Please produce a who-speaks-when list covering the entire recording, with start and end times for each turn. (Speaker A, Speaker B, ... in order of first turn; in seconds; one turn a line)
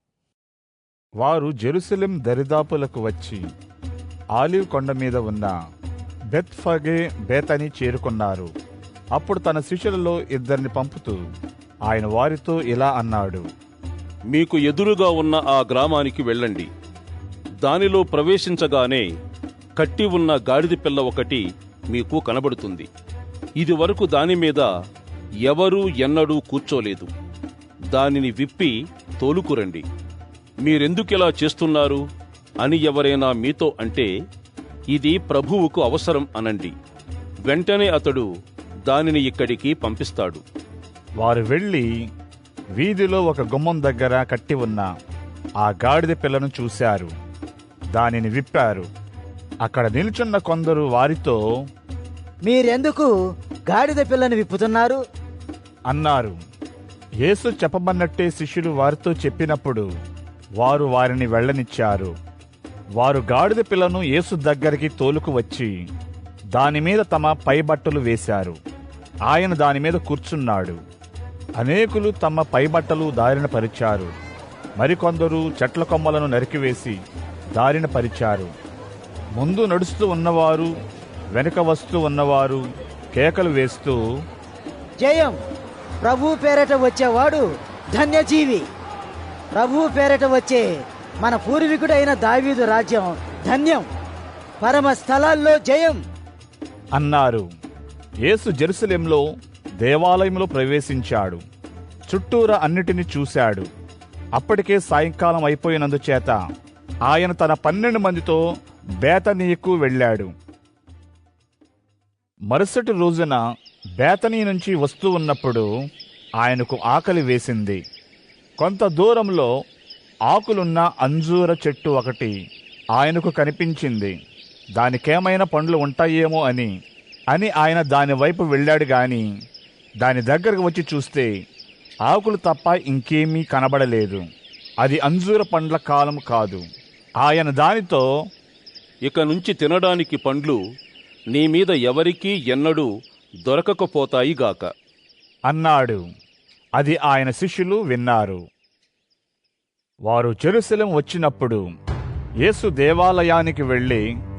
Speaker A: 1.2-3.4
Speaker A: 4.4-5.5
Speaker A: 6.3-8.5
Speaker A: 9.2-11.2
Speaker A: 11.9-13.5
Speaker B: 14.3-16.7
Speaker B: 17.6-19.1
Speaker B: 19.8-22.9
Speaker B: 23.6-24.7
Speaker B: 25.4-27.1
Speaker B: 27.9-29.8
Speaker B: 30.6-32.0
Speaker B: 32.6-34.1
Speaker B: 34.9-36.7
Speaker B: 37.5-38.3
Speaker B: 38.9-40.4
Speaker A: 41.2-41.9
Speaker A: 42.8-44.9
Speaker A: 45.6-47.1
Speaker A: 48.0-48.9
Speaker A: 49.6-51.4
Speaker C: 52.4-53.1
Speaker C: 53.7-55.0
Speaker A: 55.9-56.4
Speaker A: 57.2-59.9
Speaker A: 60.6-62.1
Speaker A: 63.0-65.7
Speaker A: 66.5-68.6
Speaker A: 69.3-70.8
Speaker A: 71.6-74.1
Speaker A: 74.8-77.0
Speaker A: 77.5-78.5
Speaker A: 79.4-80.7
Speaker A: 81.3-82.6
Speaker A: 83.1-84.0
Speaker C: 85.0-85.4
Speaker C: 86.0-88.6
Speaker C: 89.5-90.7
Speaker C: 91.2-93.9
Speaker C: 94.6-96.0
Speaker A: 96.9-97.4
Speaker A: 98.3-99.2
Speaker A: 99.8-101.4
Speaker A: 102.1-103.7
Speaker A: 104.4-106.4
Speaker A: 107.1-108.4
Speaker A: 109.0-110.3
Speaker A: 112.5-113.4
Speaker A: 114.0-115.7
Speaker A: 116.4-117.8
Speaker A: 118.6-119.5
Speaker A: 120.3-122.3
Speaker A: 123.0-124.1
Speaker A: 124.8-126.7
Speaker A: 127.3-129.3
Speaker A: 130.0-131.3
Speaker A: 132.1-134.2
Speaker A: 134.8-136.6
Speaker A: 137.2-138.0
Speaker B: 139.1-140.6
Speaker B: 141.3-142.9
Speaker B: 143.4-144.7
Speaker A: 145.5-146.0
Speaker A: 146.8-148.4
Speaker A: 150.1-151.7
Speaker A: 152.4-154.0